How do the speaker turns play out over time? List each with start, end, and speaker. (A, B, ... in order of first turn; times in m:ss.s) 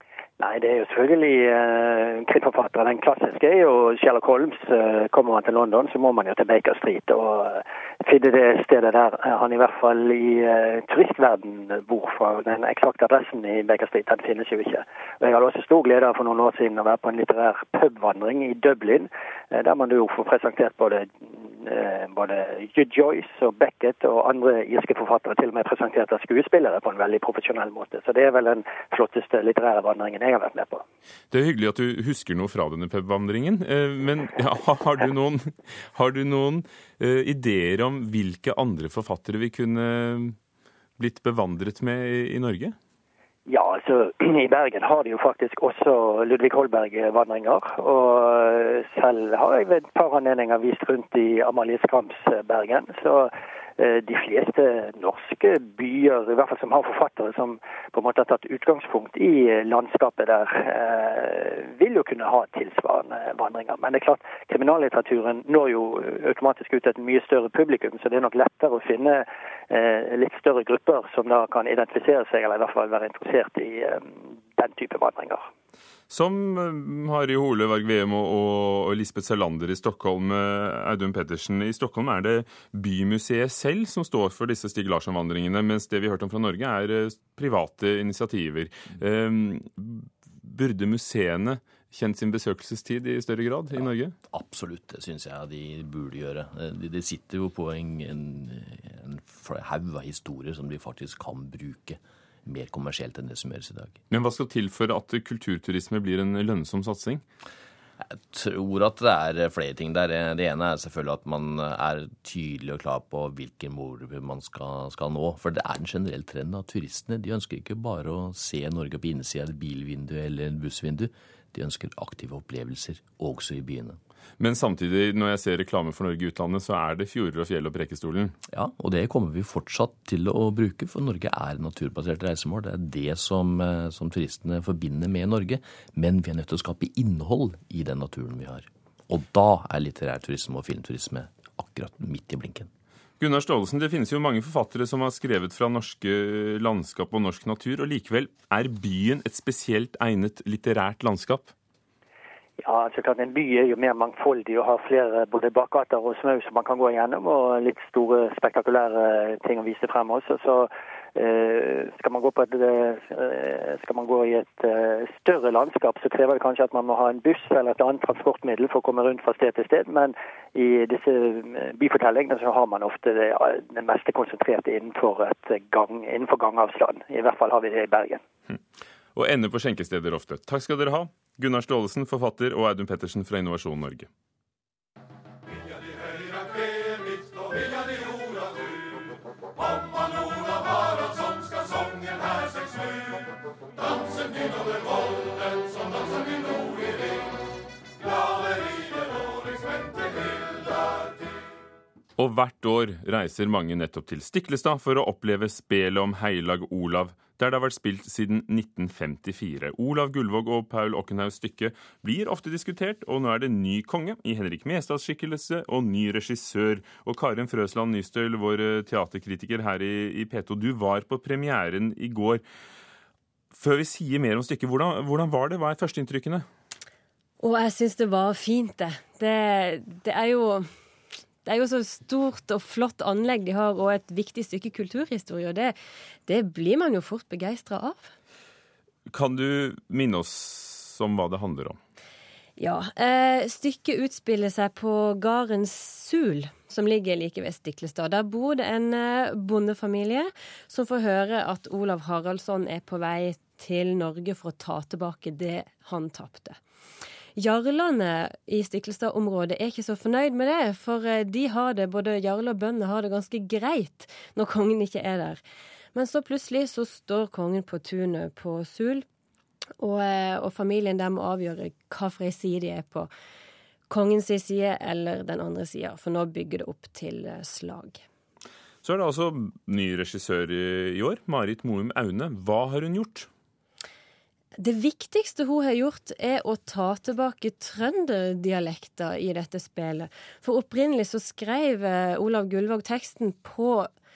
0:00.4-0:30.8 A
0:31.3-0:40.4 B
0:41.0-0:42.8 B
0:43.5-1:15.5 A
1:16.1-1:34.1 B
1:33.8-1:44.0 C
1:44.1-1:47.2 B
1:48.0-2:04.0 C
2:04.4-2:08.3 B
2:08.5-2:22.7 C
2:23.2-2:31.5 B
2:32.6-2:58.2 A
2:59.1-3:04.1 B
3:22.2-3:42.4 B
3:43.5-3:46.4 B
3:47.4-3:50.7 D
3:51.4-3:55.7 D
3:56.3-3:58.1 D
3:59.1-4:01.8 B
4:02.6-4:16.6 D
4:17.4-4:25.4 D
4:25.9-4:29.0 D
4:29.8-4:33.1 D
4:33.9-4:38.0 D
4:38.8-4:43.3 B
4:44.6-4:53.9 D